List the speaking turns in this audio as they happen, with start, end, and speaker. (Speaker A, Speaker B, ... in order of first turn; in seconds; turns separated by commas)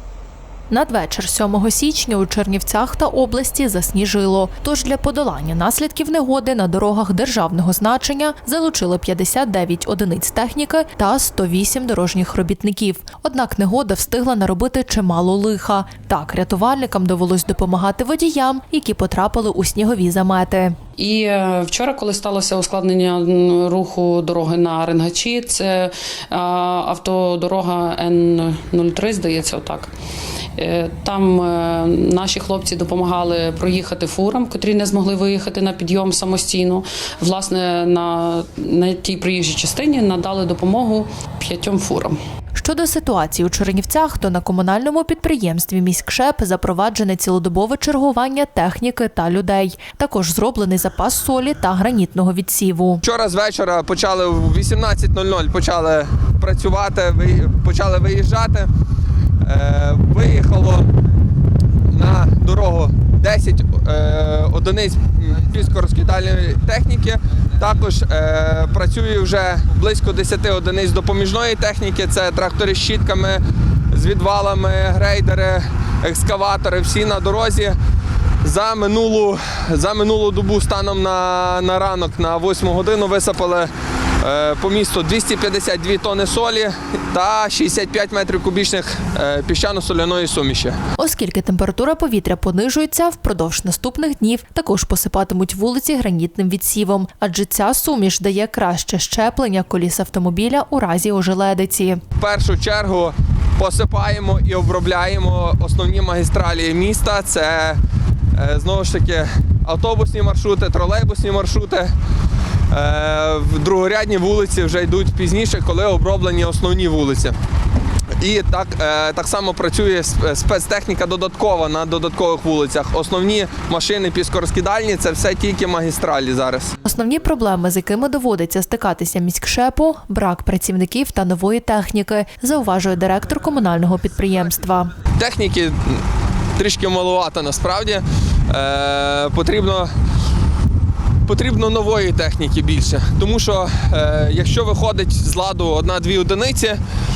Speaker A: 0.7-20.8, Speaker B: 21.0-29.9, Speaker B: 30.6-42.2, Speaker A: 42.6-53.0, Speaker C: 53.0-58.7, Speaker C: 59.4-60.9, Speaker C: 61.9-77.8, Speaker C: 78.4-83.7, Speaker C: 84.2-90.8, Speaker A: 91.0-102.0, Speaker C: 102.2-107.8, Speaker C: 108.3-111.9, Speaker C: 112.7-117.3, Speaker C: 118.2-126.7, Speaker A: 126.8-134.9, Speaker C: 135.2-136.0, Speaker C: 136.6-139.9, Speaker C: 141.2-146.8